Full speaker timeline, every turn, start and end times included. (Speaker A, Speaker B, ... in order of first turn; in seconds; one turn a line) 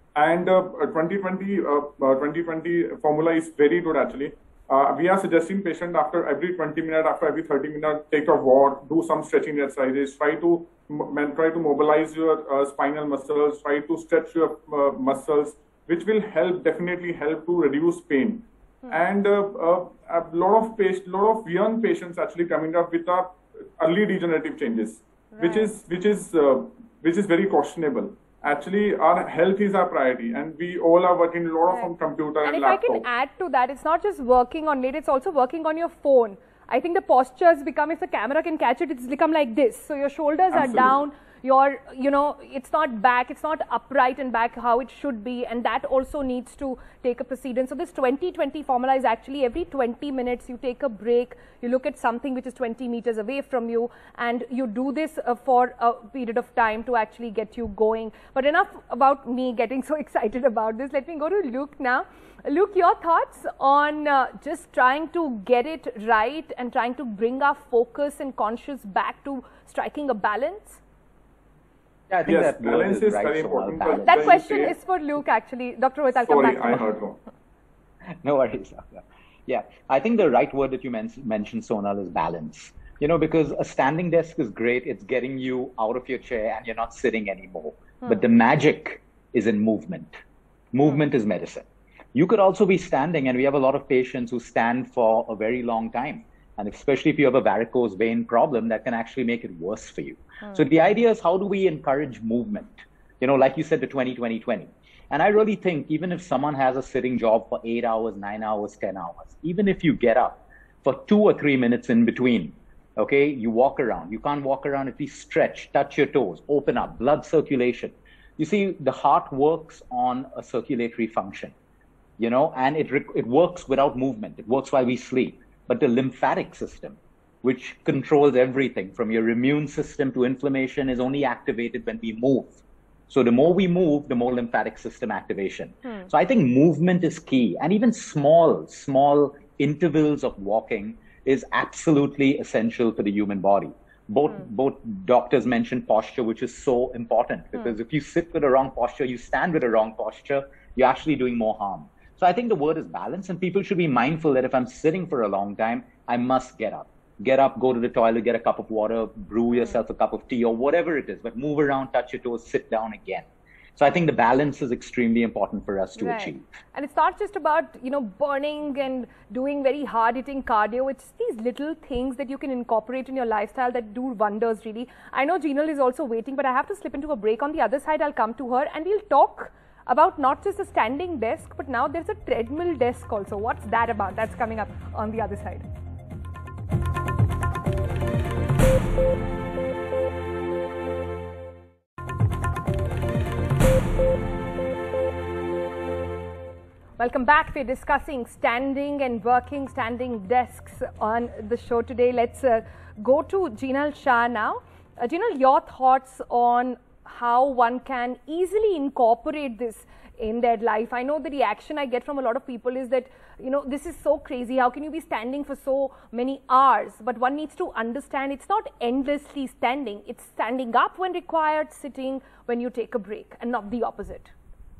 Speaker A: 0.1-33.1
Speaker B: 25.4-25.7
Speaker B: 32.4-70.8
Speaker A: 40.5-41.0
Speaker C: 72.1-74.4
Speaker A: 72.2-74.8
Speaker B: 74.0-76.9
Speaker A: 76.2-77.2
Speaker C: 78.2-90.1
Speaker C: 90.7-121.5
Speaker C: 122.2-166.4
Speaker B: 166.0-185.6
Speaker B: 197.0-224.3